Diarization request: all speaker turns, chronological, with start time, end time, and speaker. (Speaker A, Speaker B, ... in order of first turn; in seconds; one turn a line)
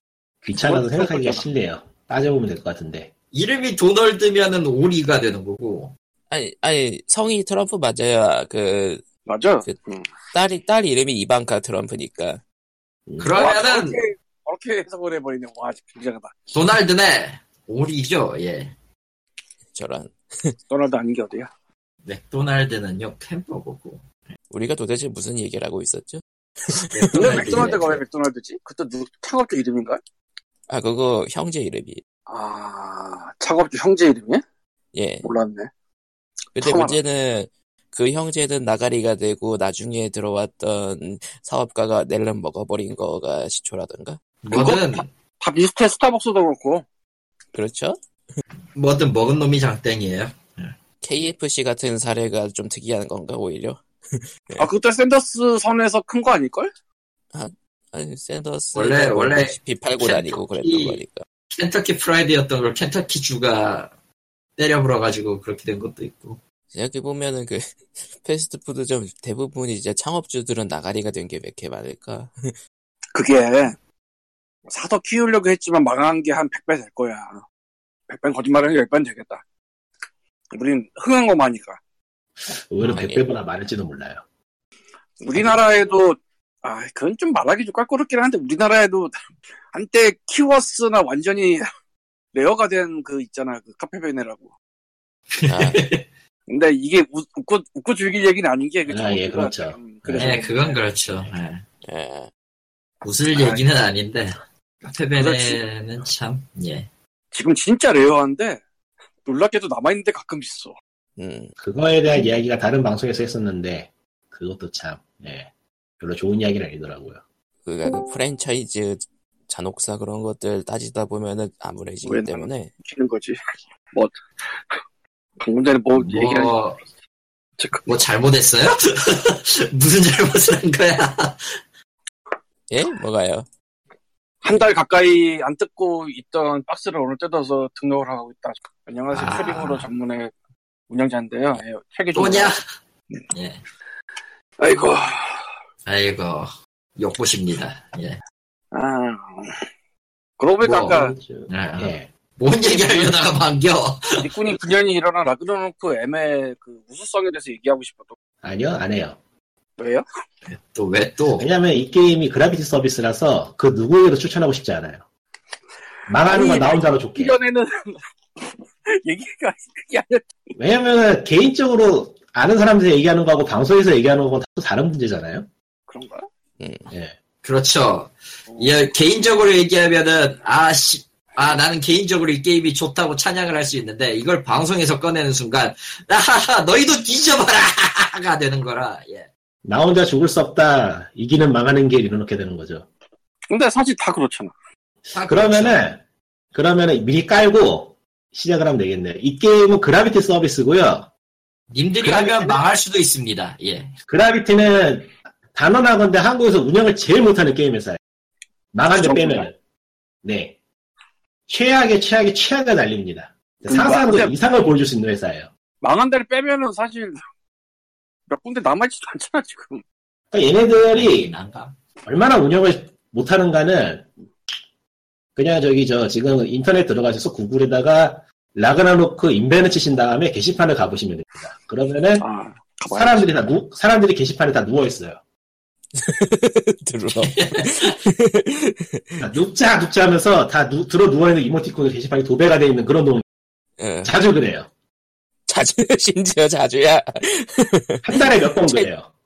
Speaker A: 0.4-3.1
Speaker B: 0.6-1.4
Speaker C: 3.3-5.9
Speaker D: 6.3-9.1
Speaker B: 9.2-10.0
Speaker D: 10.3-12.4
Speaker A: 13.1-13.4
Speaker C: 13.2-14.0
Speaker B: 13.3-16.3
Speaker C: 16.5-18.7
Speaker D: 19.7-20.6
Speaker B: 20.7-21.5
Speaker C: 22.0-24.1
Speaker D: 24.5-27.9
Speaker C: 26.9-28.0
Speaker B: 27.1-30.0
Speaker D: 30.7-32.0
Speaker B: 32.3-34.4
Speaker D: 35.0-35.3
Speaker B: 35.2-35.7
Speaker D: 36.5-44.2
Speaker B: 36.6-37.0
Speaker C: 44.4-45.1
Speaker B: 44.5-46.9
Speaker D: 47.5-48.0
Speaker C: 48.8-50.7
Speaker D: 51.0-54.7
Speaker B: 54.6-56.7
Speaker D: 57.3-61.2
Speaker C: 58.7-63.9
Speaker C: 64.6-66.4
Speaker D: 66.7-72.5
Speaker B: 73.1-73.8
Speaker B: 74.7-77.4
Speaker B: 78.1-79.4
Speaker B: 80.5-81.8
Speaker A: 82.5-84.2
Speaker D: 82.8-83.3
Speaker B: 85.2-89.1
Speaker B: 89.7-91.6
Speaker B: 92.3-94.5
Speaker C: 95.3-96.0
Speaker D: 95.5-95.9
Speaker B: 96.5-100.8
Speaker A: 98.9-100.4
Speaker C: 100.1-101.6
Speaker D: 101.8-102.3
Speaker C: 103.0-106.9
Speaker B: 103.3-103.6
Speaker B: 105.2-105.6
Speaker B: 107.3-108.6
Speaker B: 109.2-110.8
Speaker D: 111.2-111.5
Speaker A: 111.6-117.2
Speaker D: 117.6-122.7
Speaker B: 122.0-123.4
Speaker B: 123.9-124.2
Speaker B: 125.4-126.5
Speaker C: 126.0-126.8
Speaker B: 127.6-128.0
Speaker C: 127.9-131.6
Speaker D: 132.7-133.5
Speaker B: 134.4-140.3
Speaker C: 139.1-139.9
Speaker B: 140.9-142.5
Speaker C: 142.1-142.6
Speaker C: 143.3-143.6
Speaker B: 144.6-145.4
Speaker C: 145.9-148.2
Speaker B: 148.7-149.6
Speaker B: 150.4-151.1
Speaker C: 150.6-154.3
Speaker A: 150.9-152.1
Speaker B: 152.7-153.2
Speaker B: 154.2-158.1
Speaker A: 158.4-159.2
Speaker B: 159.8-160.0
Speaker C: 160.5-161.5
Speaker A: 161.4-165.0
Speaker A: 166.1-167.4
Speaker B: 166.2-170.3
Speaker A: 170.6-175.5
Speaker B: 175.9-176.3
Speaker D: 176.6-176.9
Speaker A: 176.9-177.2
Speaker C: 177.4-189.3
Speaker A: 189.6-192.9
Speaker B: 193.5-194.5
Speaker C: 195.1-195.8
Speaker A: 195.2-196.0
Speaker A: 196.5-201.1
Speaker C: 201.7-203.9
Speaker A: 202.0-202.6
Speaker A: 204.1-208.0
Speaker A: 208.7-209.6
Speaker B: 208.9-209.5
Speaker A: 210.2-210.6
Speaker A: 211.5-215.5
Speaker B: 213.7-214.3
Speaker B: 215.8-217.2
Speaker B: 218.3-219.8
Speaker A: 220.3-221.3
Speaker C: 220.9-221.7
Speaker A: 222.1-224.1
Speaker A: 225.4-232.2
Speaker B: 232.2-233.3
Speaker A: 232.9-235.2
Speaker D: 236.0-239.2
Speaker C: 237.2-238.0
Speaker A: 239.2-243.2
Speaker D: 243.8-244.1
Speaker A: 244.0-244.7
Speaker D: 245.5-248.9
Speaker A: 248.0-249.1